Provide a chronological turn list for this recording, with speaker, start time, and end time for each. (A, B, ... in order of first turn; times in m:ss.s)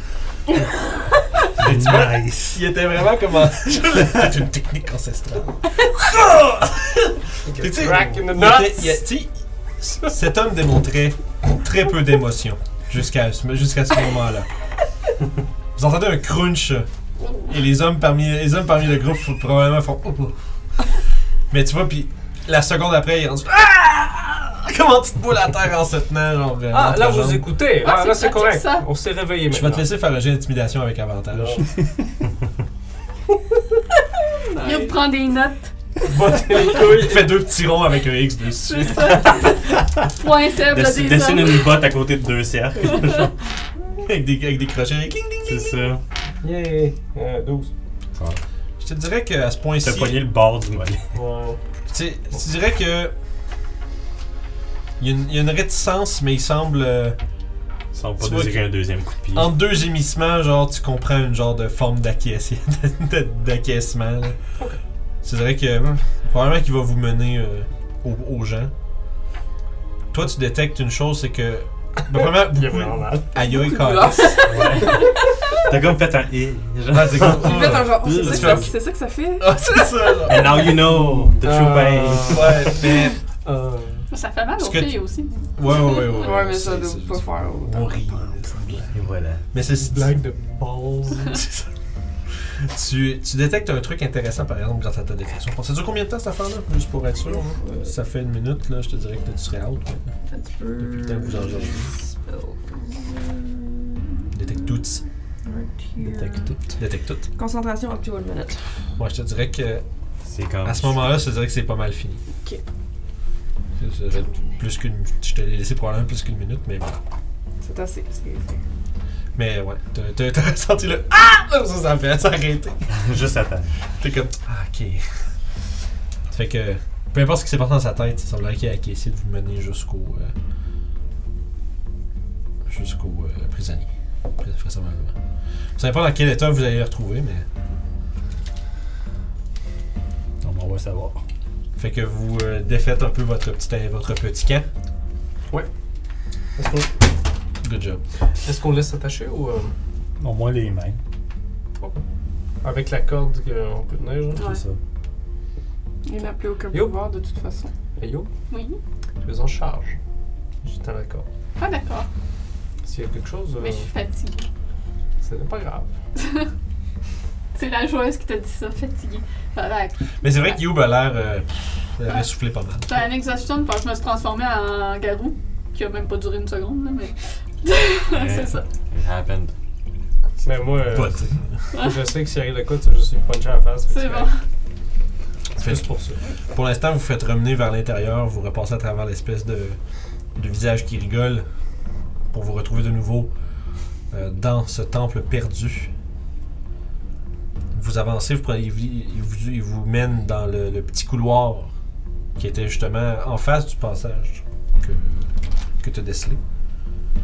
0:01.6-0:14.5 A
0:01.6-0:02.6 B
0:07.4-0:09.0 C
0:15.8-0:16.9 A
0:17.5-0:20.4 A
0:21.5-0:27.5 A
0:26.7-0:29.9 C
0:27.8-0:28.9 D
0:29.5-0:31.6 A
0:31.3-0:31.7 C
0:34.5-0:35.0 E
0:34.5-0:35.7 D
0:36.0-0:37.4 C
0:36.7-0:39.2 A
0:38.6-0:41.8 D
0:39.1-0:43.3 F
0:44.0-0:45.8 A
0:45.5-0:46.0 F
0:46.4-0:47.7 C
0:48.8-0:50.2 A
0:49.8-0:51.1 F
0:51.1-0:51.6 C
0:51.9-0:53.1 A
0:55.0-0:57.2 A
0:57.9-0:59.5 F
0:58.2-0:58.7 A
0:59.3-1:04.4 A
1:05.2-1:08.7 A
1:10.1-1:14.4 A
1:12.1-1:13.3 C
1:13.5-1:15.0 E
1:14.5-1:15.0 F
1:14.5-1:15.0 C
1:15.6-1:18.7 F
1:16.9-1:18.8 A
1:17.4-1:19.5 E
1:19.4-1:20.8 A
1:20.3-1:22.7 F
1:20.4-1:24.1 C
1:22.2-1:23.2 A
1:24.1-1:25.5 D
1:24.6-1:25.0 A
1:25.6-1:29.0 A
1:26.0-1:28.3 E
1:28.9-1:29.4 F
1:29.5-1:30.2 A
1:29.8-1:31.4 C
1:31.3-1:31.7 A
1:32.6-1:40.0 A
1:37.3-1:37.6 C
1:37.4-1:37.9 E
1:40.3-1:43.9 E
1:40.8-1:41.9 A
1:44.3-1:45.0 A
1:45.4-1:46.5 E
1:46.0-1:46.6 B
1:46.8-1:47.3 A
1:47.3-1:48.6 E
1:49.0-1:49.8 A
1:50.3-1:51.1 F
1:50.6-1:52.2 A
1:53.8-1:57.0 A
1:57.6-1:58.6 E
1:59.4-2:03.0 A
2:02.9-2:03.8 F
2:04.0-2:05.1 A
2:06.3-2:10.3 A
2:12.7-2:15.2 A
2:15.8-2:17.5 A
2:20.4-2:21.2 B
2:21.8-2:24.7 A
2:26.6-2:26.9 C
2:27.6-2:28.0 A
2:28.4-2:29.7 C
2:30.2-2:31.0 B
2:32.6-2:34.6 C
2:34.4-2:34.6 E
2:34.4-2:34.8 B
2:36.1-2:37.7 E
2:36.7-2:37.0 C
2:38.0-2:38.3 C
2:38.5-2:38.8 D
2:39.2-2:40.0 C
2:40.6-2:41.3 C
2:41.6-2:42.1 D
2:42.8-2:43.9 C
2:43.6-2:44.5 D
2:45.2-2:45.9 C
2:46.2-2:46.5 D
2:47.6-2:50.6 D
2:50.2-2:53.0 A
2:52.9-2:58.7 D
2:58.1-2:59.5 F
3:00.4-3:04.3 C
3:00.9-3:01.8 A
3:03.9-3:04.4 D
3:05.6-3:06.2 C
3:05.6-3:09.8 A
3:10.4-3:11.5 A
3:12.3-3:13.3 A
3:14.1-3:15.9 A
3:17.7-3:21.7 A
3:22.4-3:26.4 A